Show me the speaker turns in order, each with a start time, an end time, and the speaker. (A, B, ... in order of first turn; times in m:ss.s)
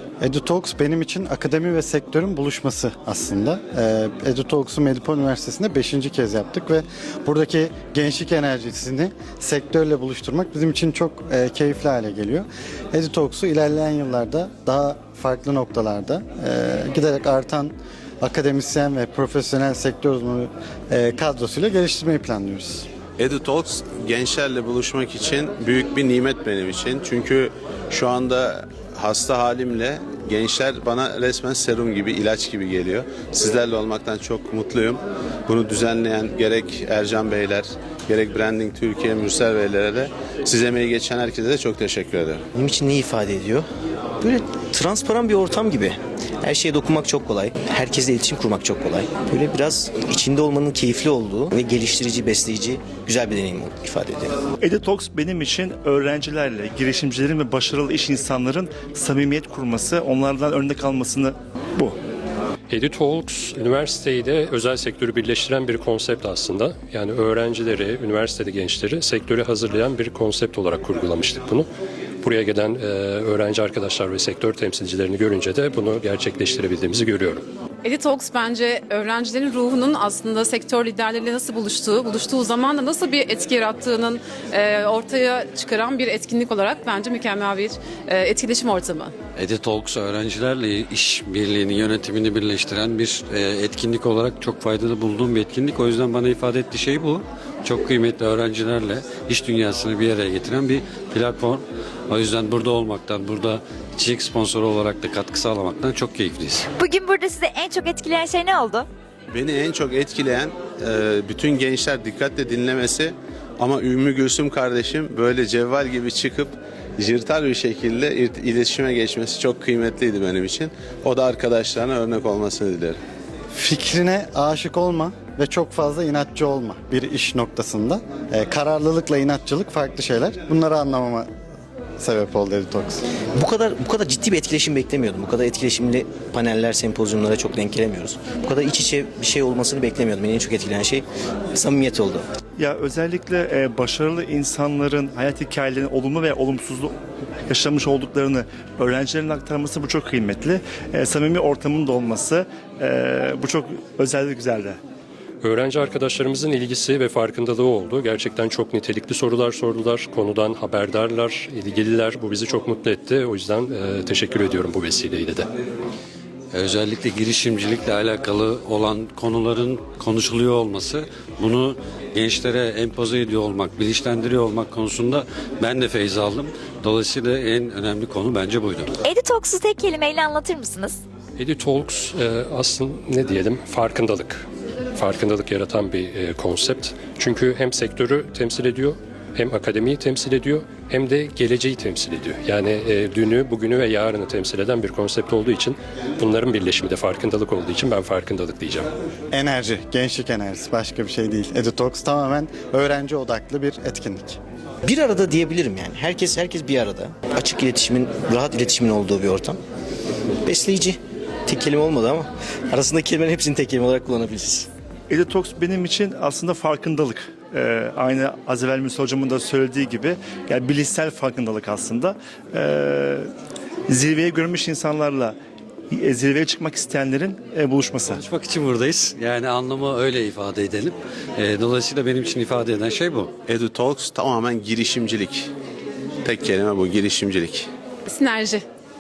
0:00.2-0:22.9 A
0:23.2-0:42.4 B
0:42.6-0:43.6 C
0:44.2-0:54.3 C
0:54.6-1:02.0 D
1:02.7-1:11.7 E
1:12.2-1:17.4 E
1:17.8-1:29.1 F
1:29.4-1:46.7 G
1:46.8-1:48.9 H
1:49.3-2:03.0 B
2:03.6-2:11.3 A
2:12.0-2:13.0 A
2:13.4-2:22.2 C
2:22.6-2:26.9 D
2:27.5-2:34.8 D
2:35.4-2:45.5 E
2:46.5-2:58.9 G
2:59.0-3:01.0 H
3:01.4-3:04.4 E
3:05.0-3:18.9 E
3:19.3-3:24.4 A
3:24.8-3:29.6 C
3:30.4-3:34.7 C
3:35.1-3:43.3 D
3:43.9-3:45.4 D
3:45.9-3:48.2 D
3:48.1-3:53.3 G
3:53.5-3:55.5 B
3:56.2-3:57.7 B
3:58.1-3:58.6 F